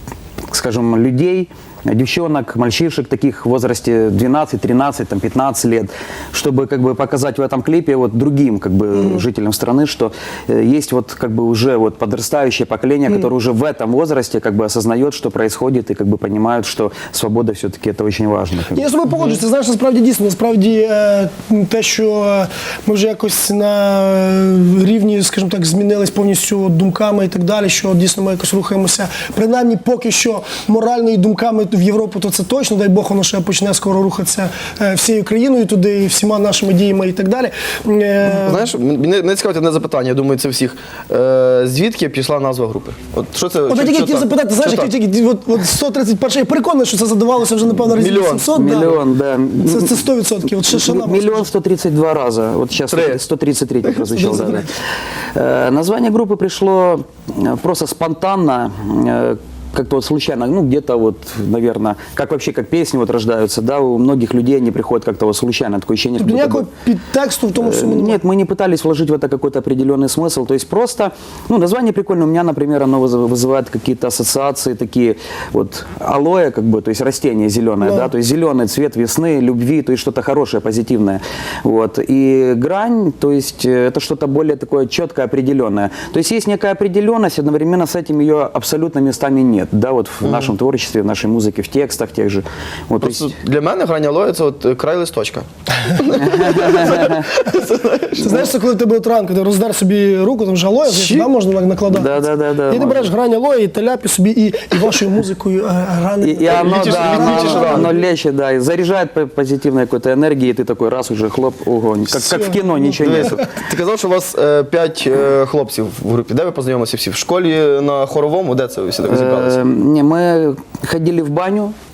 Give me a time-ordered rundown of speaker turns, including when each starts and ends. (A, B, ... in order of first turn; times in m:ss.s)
0:00.5-0:18.8 A
0:08.9-0:09.2 B
0:18.7-0:38.7 B
0:38.3-0:44.9 C
0:43.7-0:49.0 B
0:47.9-0:49.0 C
0:48.5-0:50.1 A
0:49.6-0:51.5 B
0:50.6-0:54.7 A
0:52.9-0:53.2 C
0:53.9-0:54.6 C
0:54.1-0:54.7 B
0:55.3-1:06.6 A
1:06.2-1:08.2 B
1:07.6-1:33.3 A
1:17.8-1:18.1 B
1:30.2-1:30.5 C
1:33.0-1:38.5 C
1:36.2-1:37.2 A
1:38.2-1:48.0 B
1:40.9-1:41.3 C
1:41.9-1:43.1 A
1:46.2-1:53.5 A
1:46.4-1:47.9 C
1:52.1-1:53.4 B
1:53.0-1:59.6 C
1:59.1-2:01.7 A